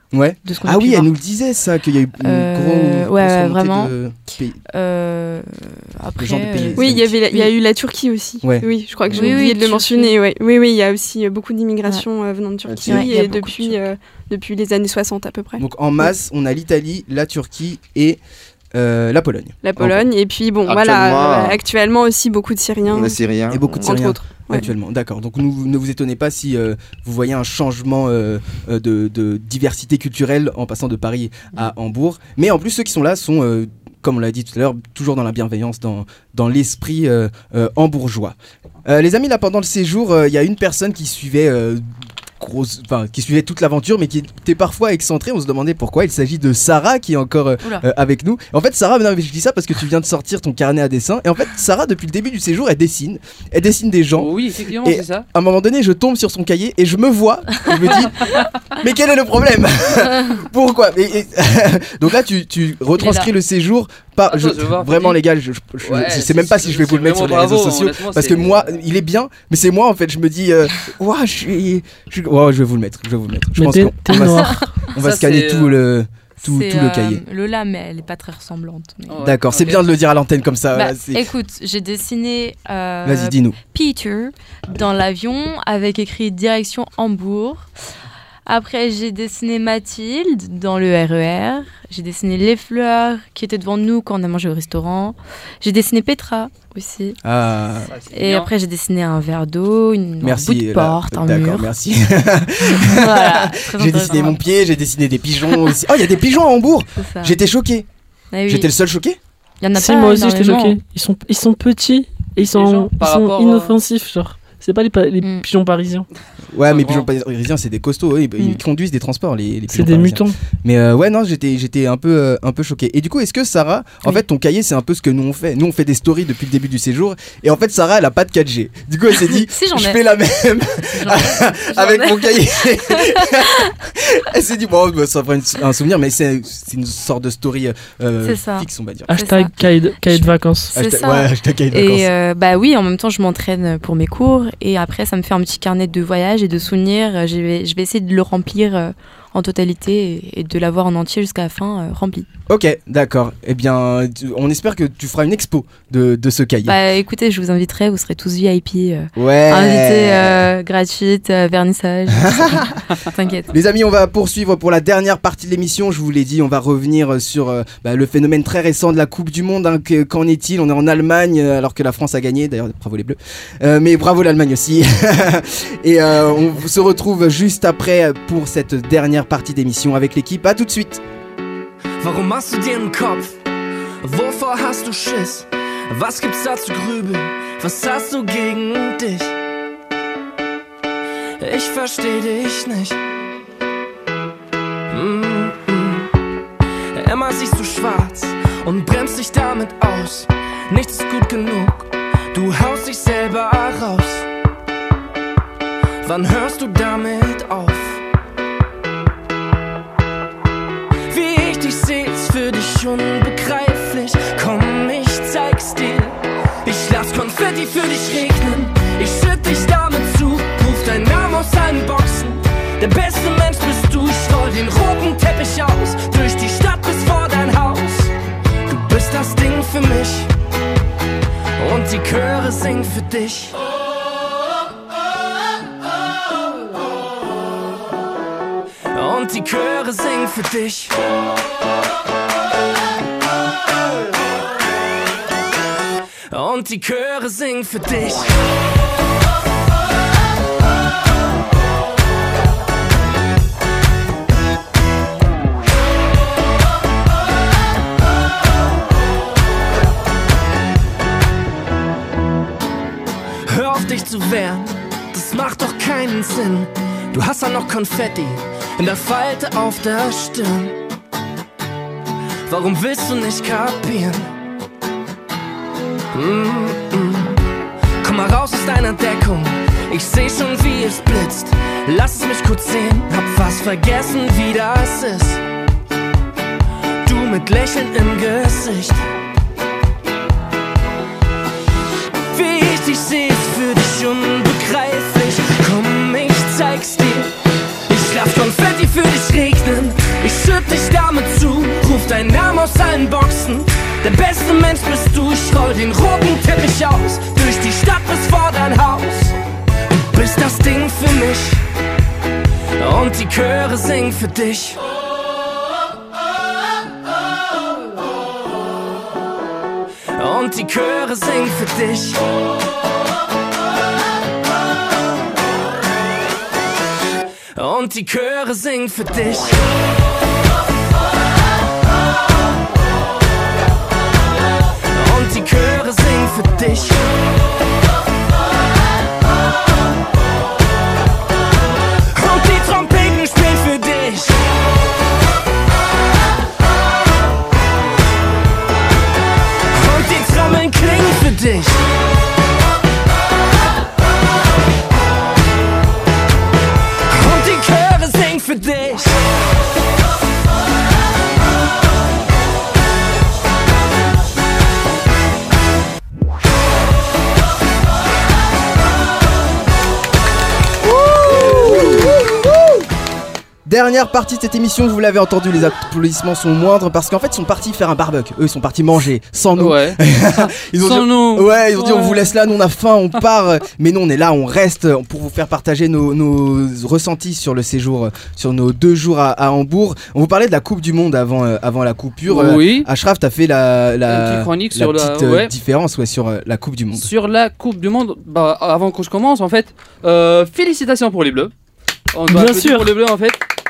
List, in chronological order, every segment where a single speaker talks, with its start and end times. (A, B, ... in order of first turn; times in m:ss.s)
0:00.1-0:04.6 A
0:00.4-0:01.1 B
0:02.2-0:03.9 B
0:04.7-0:07.5 B
0:06.2-0:07.1 A
0:06.8-0:15.6 C
0:09.1-0:09.4 D
0:09.1-0:10.1 B
0:12.6-0:13.1 D
0:12.8-0:13.8 B
0:15.6-0:18.2 A
0:18.7-0:20.0 A
0:19.6-0:23.2 C
0:20.6-0:21.6 D
0:22.9-0:24.6 D
0:23.5-0:54.3 A
0:23.8-0:24.6 C
0:54.2-0:55.2 E
0:54.8-1:17.2 A
1:03.0-1:03.3 B
1:04.3-1:05.2 E
1:05.8-1:08.6 E
1:13.6-1:14.7 F
1:14.1-1:14.7 B
1:14.9-1:15.8 E
1:16.4-1:19.2 B
1:19.1-1:19.8 E
1:19.2-1:21.2 A
1:20.7-1:27.7 B
1:23.0-1:23.6 A
1:28.4-1:37.2 B
1:37.2-1:37.9 A
1:37.9-1:38.5 E
1:38.1-1:41.7 B
1:40.2-1:47.8 A
1:42.6-1:44.4 B
1:47.0-1:47.4 B
1:48.3-1:48.7 B
1:48.5-1:49.2 A
1:49.6-1:50.8 B
1:49.8-1:56.1 F
1:52.4-1:53.7 E
1:56.5-2:19.1 A
1:56.7-1:57.1 E
1:59.7-2:00.4 F
2:09.2-2:10.0 B
2:10.8-2:13.6 B
2:18.2-2:32.3 B
2:19.1-2:20.7 F
2:20.7-2:22.1 A
2:32.5-2:36.8 A
2:36.6-2:43.5 B
2:39.2-2:40.5 A
2:42.1-2:42.8 A
2:43.5-3:01.0 A
3:02.0-3:03.4 G
3:04.0-3:09.3 G
3:11.4-3:13.0 G
3:14.9-3:16.1 G
3:16.9-3:24.3 G
3:26.0-3:28.0 G
3:31.1-3:48.1 G
3:48.6-3:50.3 G
3:51.6-3:53.6 G
3:58.9-4:01.0 G
4:06.3-4:08.3 G
4:23.4-4:30.8 G
4:32.5-4:34.3 G
4:36.1-4:37.4 G
4:38.0-4:45.4 G
4:47.0-4:49.0 G
4:52.2-4:57.3 G
4:57.9-5:09.4 G
5:09.9-5:11.6 G
5:12.8-5:14.8 G
5:20.2-5:22.2 G
5:27.6-5:29.6 G
5:34.9-5:37.0 G
5:42.1-5:44.4 G
5:49.7-5:51.8 G
5:57.1-5:59.2 G
6:11.3-6:12.2 A
6:11.3-6:11.8 E
6:13.6-6:37.1 A
6:19.6-6:22.1 E
6:32.3-6:32.9 E
6:34.0-6:35.5 E
6:36.9-6:41.5 E
6:42.1-6:43.4 E
6:42.3-6:42.9 F